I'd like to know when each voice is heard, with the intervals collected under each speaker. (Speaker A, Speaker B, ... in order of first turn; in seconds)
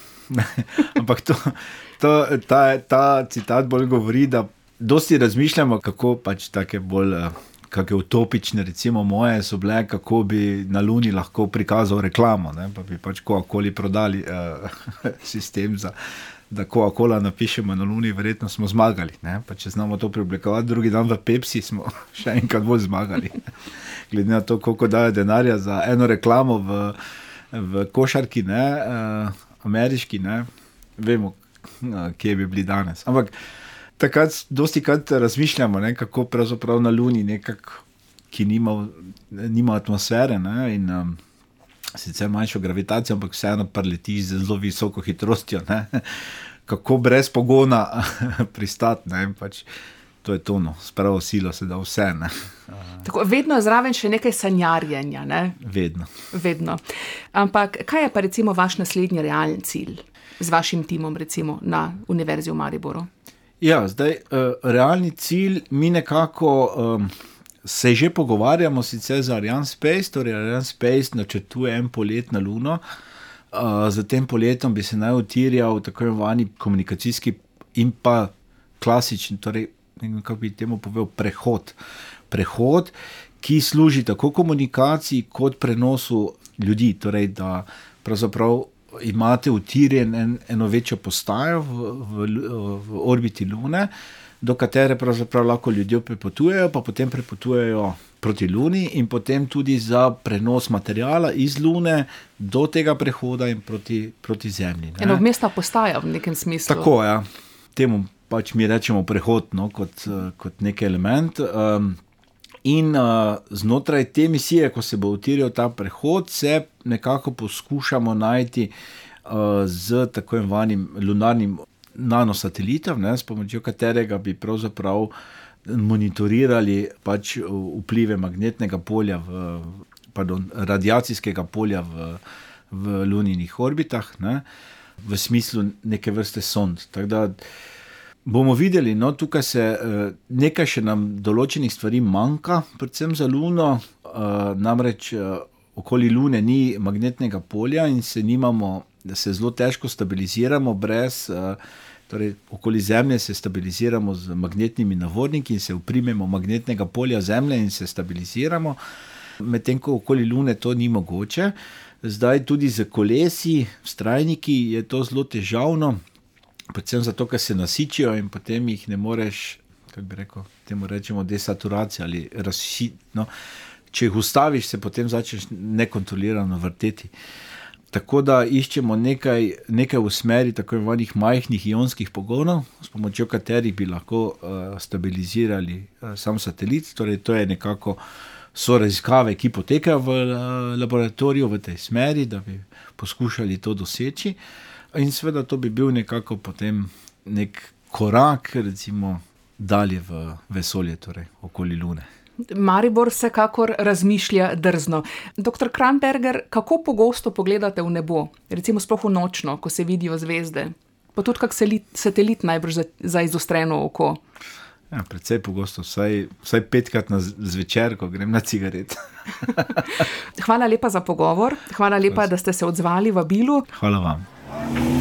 Speaker A: 0.3-15.9, 16.5-27.0, 27.5-33.3, 34.0-41.2, 41.9-49.7, 50.2-53.0, 55.6-56.1, 63.6-67.1, 67.6-72.8, 73.5-81.8, 82.3-105.2, 106.7-112.0, 112.6-118.7, 119.2-125.1, 125.6-134.4, 135.0-137.4, 138.2-158.8, 159.4-166.0, 166.7-173.3, 173.9-177.1, 177.9-188.0, 188.5-194.4, 194.9-202.1, 214.9-220.0, 223.7-224.3
Speaker B: 53.0-55.6, 56.3-56.8, 57.3-63.1, 105.0-106.9, 202.5-214.2, 220.4-223.7